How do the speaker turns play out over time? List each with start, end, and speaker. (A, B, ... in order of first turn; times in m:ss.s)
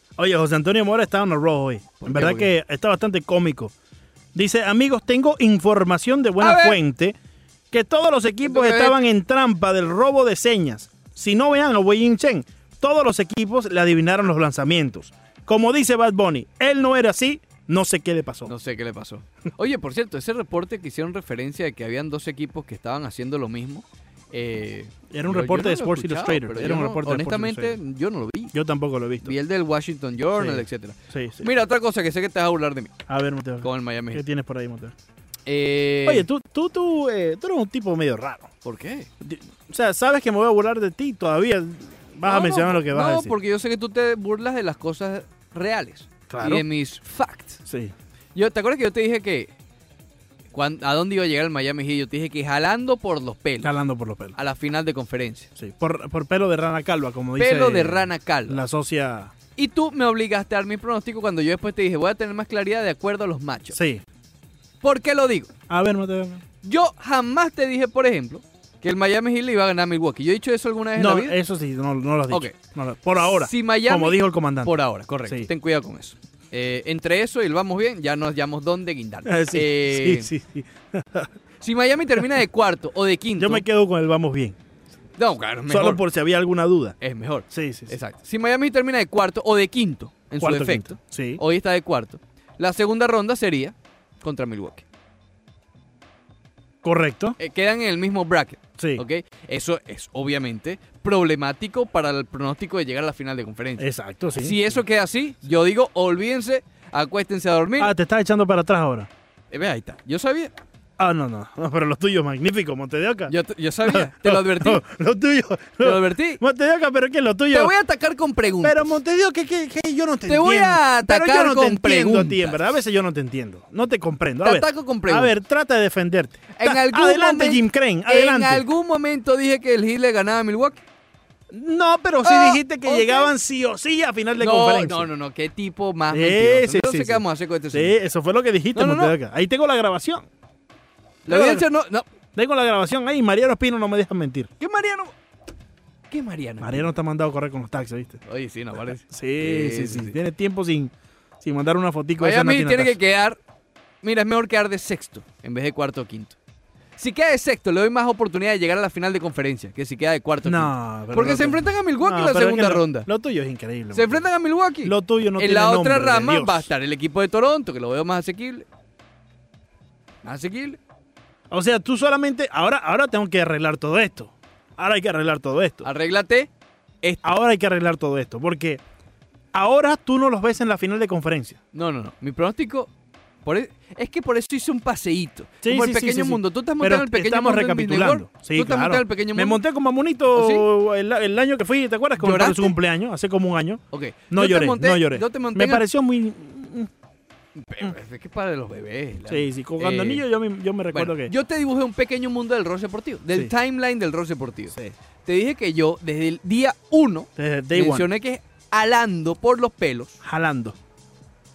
0:00.2-0:03.7 A
0:02.0-0:02.5 B
0:04.3-0:07.1 A
0:06.4-0:06.8 B
0:07.7-0:18.5 A
0:08.4-0:09.0 B
0:18.4-0:28.5 B
0:25.1-0:27.8 A
0:28.5-0:29.3 A
0:29.2-0:33.0 B
0:30.4-0:31.5 A
0:33.1-0:34.9 A
0:33.6-0:34.2 B
0:35.4-0:36.3 B
0:36.0-0:38.5 A
0:38.6-0:39.1 B
0:39.2-0:43.3 A
0:42.2-0:47.6 B
0:46.3-0:46.6 A
0:47.7-0:47.9 A
0:48.3-0:49.5 B
0:50.5-0:53.7 B
0:53.6-0:54.3 A
0:54.4-0:55.5 B
0:55.6-0:59.3 A
0:57.4-0:58.6 B
0:59.6-1:03.8 B
1:03.7-1:04.0 A
1:04.8-1:05.5 B
1:05.7-1:06.4 A
1:06.6-1:11.4 B
1:11.0-1:14.7 A
1:12.3-1:12.6 B
1:13.2-1:20.3 B
1:19.2-1:21.3 A
1:21.6-1:23.6 B
1:23.4-1:24.6 A
1:25.2-1:26.0 B
1:25.7-1:27.0 A
1:27.0-1:34.8 B
1:27.5-1:27.9 A
1:30.4-1:31.4 A
1:36.8-1:37.4 A
1:37.4-1:43.8 B
1:43.8-1:44.6 A
1:44.4-1:47.9 B
1:47.8-1:49.1 A
1:49.5-1:50.5 B
1:51.0-1:53.3 A
1:53.3-1:54.8 B
1:53.8-1:57.7 A
1:55.8-1:56.4 B
1:57.5-1:59.0 B
1:58.6-2:08.6 A
2:00.3-2:02.7 B
2:04.4-2:05.3 B
2:06.5-2:10.8 B
2:11.5-2:15.1 A
2:12.2-2:13.3 B
2:14.4-2:17.9 B
2:16.1-2:20.2 A
2:18.7-2:19.1 B
2:21.3-2:21.6 A
2:21.3-2:22.1 B
2:22.3-2:24.5 A
2:24.6-2:25.1 B
2:26.1-2:26.9 B
2:26.6-2:28.2 A
2:28.2-2:30.2 B
2:29.0-2:33.0 A
2:32.2-2:33.4 B
2:34.0-2:36.4 B
2:37.0-2:43.1 B
2:40.4-2:44.2 A
2:43.9-2:48.6 B
2:44.8-2:46.7 A
2:50.2-2:50.8 B
2:51.5-2:55.9 A
2:55.8-2:56.5 B
2:57.2-2:58.8 A
2:59.5-3:01.6 A
3:01.7-3:02.9 B
3:03.4-3:09.6 B
3:05.6-3:16.9 A
3:10.3-3:10.6 B
3:12.2-3:12.8 B
3:13.9-3:15.8 B
3:17.5-3:20.2 B
3:19.3-3:21.3 A
3:20.9-3:24.7 B
3:25.2-3:30.2 B
3:27.4-3:28.1 A
3:30.2-3:30.8 A